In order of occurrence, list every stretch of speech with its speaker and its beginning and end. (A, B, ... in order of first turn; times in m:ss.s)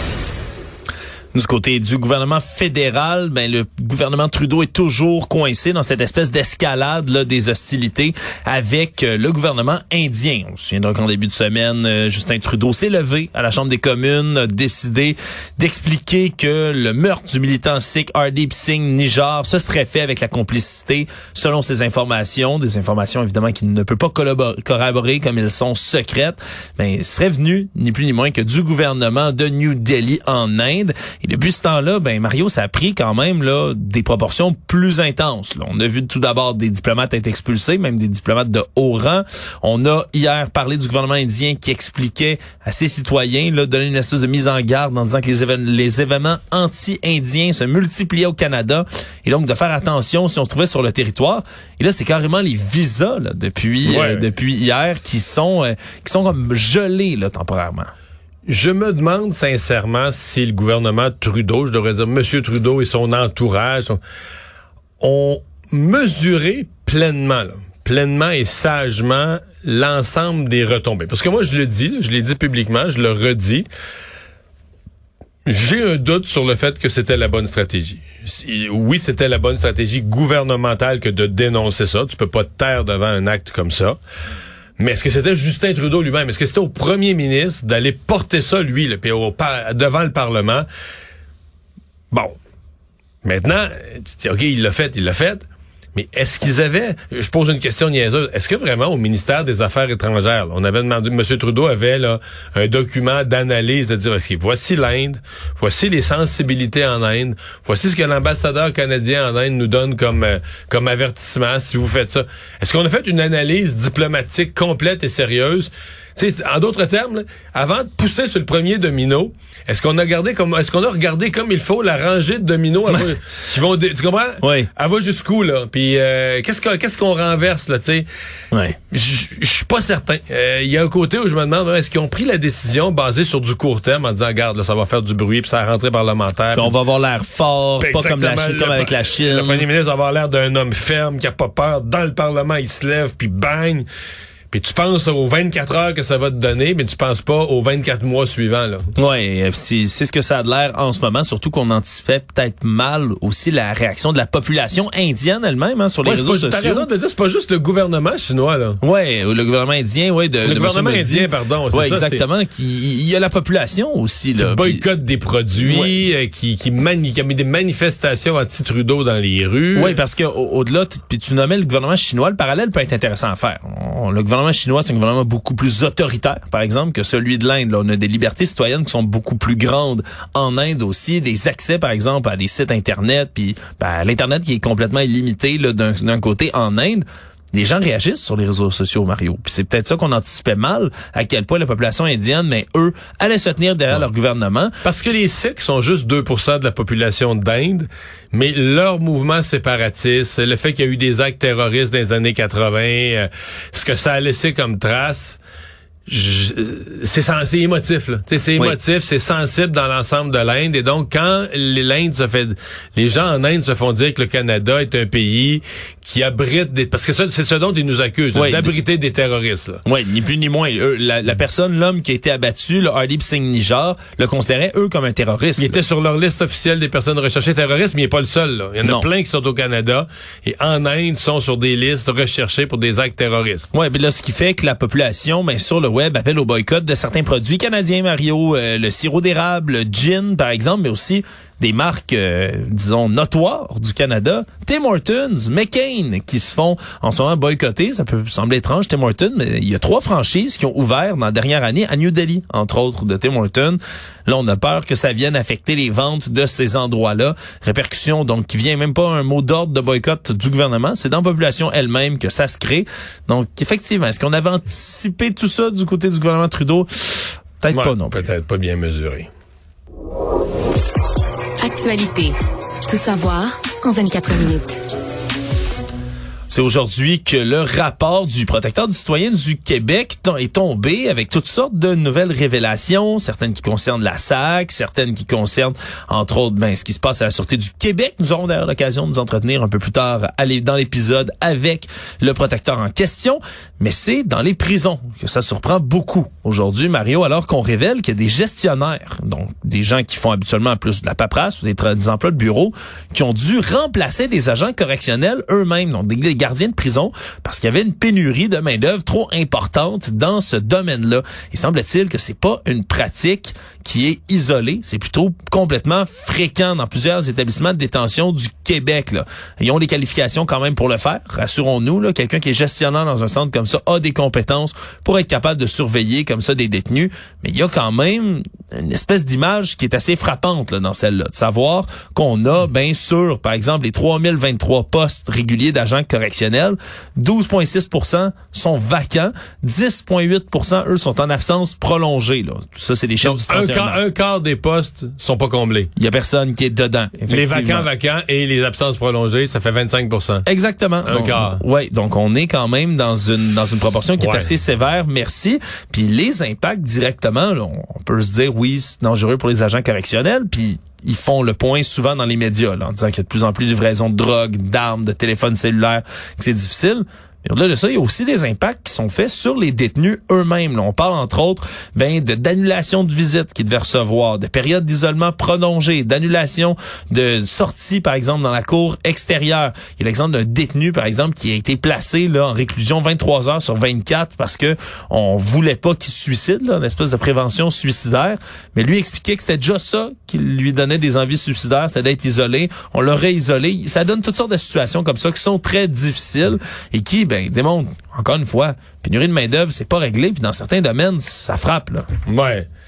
0:01.3-0:57.9 A
0:53.8-0:54.3 B
0:58.5-1:04.0 B
1:05.0-1:13.7 B
1:15.5-1:24.0 B
1:24.8-1:30.7 B
1:33.2-1:35.4 B
1:36.0-2:08.1 B
2:04.4-2:04.7 A
2:08.5-2:08.8 A
2:08.9-2:16.7 B
2:16.5-2:19.7 A
2:17.8-2:23.9 B
2:24.5-2:28.9 B
2:29.0-2:36.9 A
2:36.0-2:38.8 B
2:38.8-2:44.8 A
2:40.4-2:42.2 B
2:44.4-2:50.0 B
2:45.6-2:45.9 A
2:49.8-3:14.8 A
3:14.8-3:25.4 B
3:26.1-3:39.8 B
3:38.3-3:38.8 A
3:39.8-3:45.8 A
3:45.6-3:53.7 B
3:48.8-3:49.1 A
3:53.7-4:26.9 A
4:27.6-4:28.3 A
4:27.7-4:29.3 B
4:31.6-4:32.4 C
4:32.9-4:34.8 C
4:36.5-5:44.1 A
5:43.2-5:45.9 B
5:46.0-5:47.9 A
5:47.3-5:50.5 B
5:50.5-6:42.1 A
5:51.1-5:51.6 B
5:54.2-5:54.5 B
6:42.3-6:42.7 B